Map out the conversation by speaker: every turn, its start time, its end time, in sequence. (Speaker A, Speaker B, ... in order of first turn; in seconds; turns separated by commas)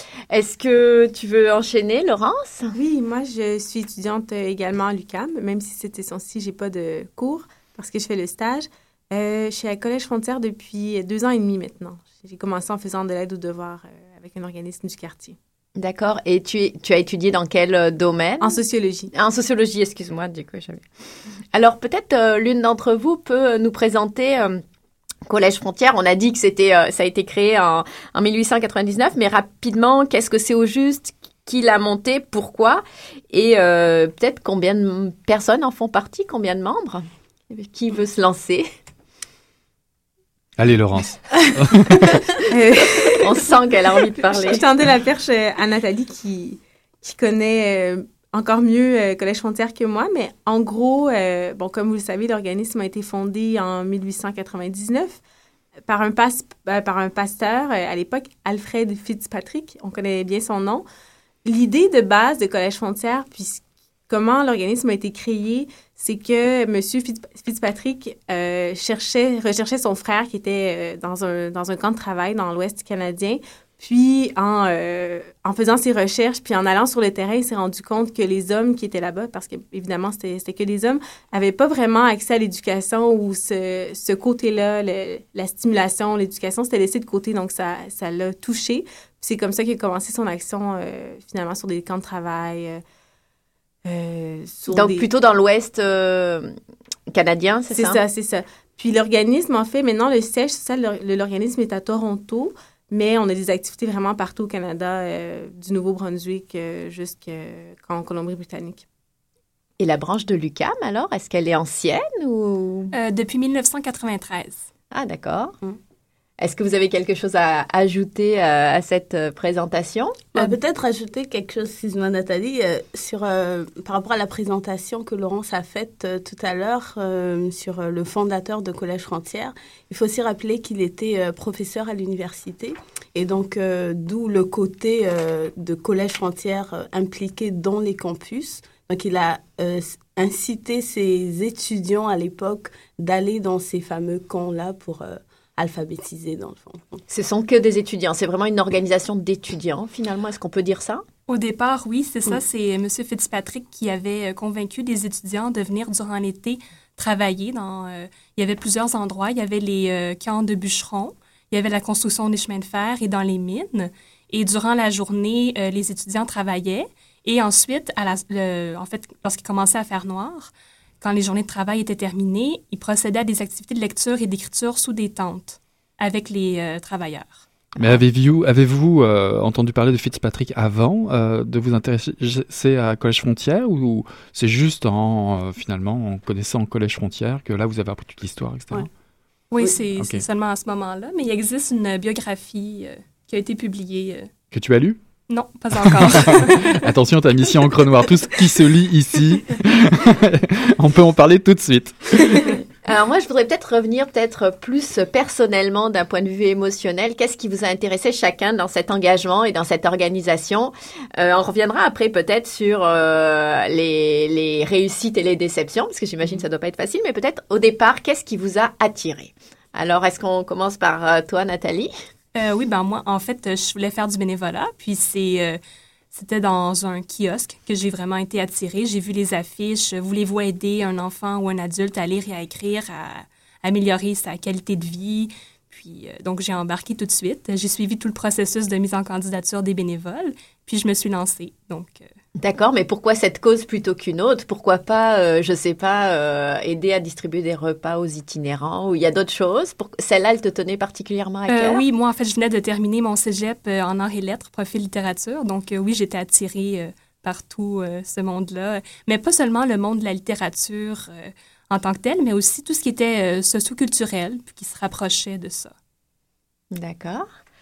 Speaker A: 0.3-2.7, Speaker B: 2.8-15.4, Speaker A: 15.8-18.6, Speaker B: 18.4-19.1, Speaker A: 19.1-20.9, Speaker A: 21.5-24.6, Speaker A: 25.3-38.7, Speaker C: 40.6-42.2, Speaker B: 42.5-43.5, Speaker A: 43.1-44.6, Speaker B: 44.3-55.2, Speaker B: 55.9-60.9, Speaker B: 61.5-92.8, Speaker B: 93.8-95.1, Speaker A: 94.7-96.6, Speaker A: 97.1-98.0, Speaker B: 97.7-108.8, Speaker A: 109.8-112.9, Speaker D: 112.9-114.7, Speaker A: 114.9-115.6, Speaker A: 116.4-120.2, Speaker E: 120.3-147.0, Speaker A: 147.1-151.1, Speaker D: 151.3-177.4, Speaker A: 177.8-178.0, Speaker C: 177.8-188.9, Speaker D: 189.5-194.3, Speaker C: 190.0-190.2, Speaker C: 194.5-195.0, Speaker D: 195.3-196.9, Speaker C: 195.7-202.6, Speaker A: 202.8-221.9, Speaker D: 222.3-225.6, Speaker D: 226.1-242.1, Speaker A: 242.4-251.8, Speaker D: 251.5-265.7, Speaker A: 266.7-267.3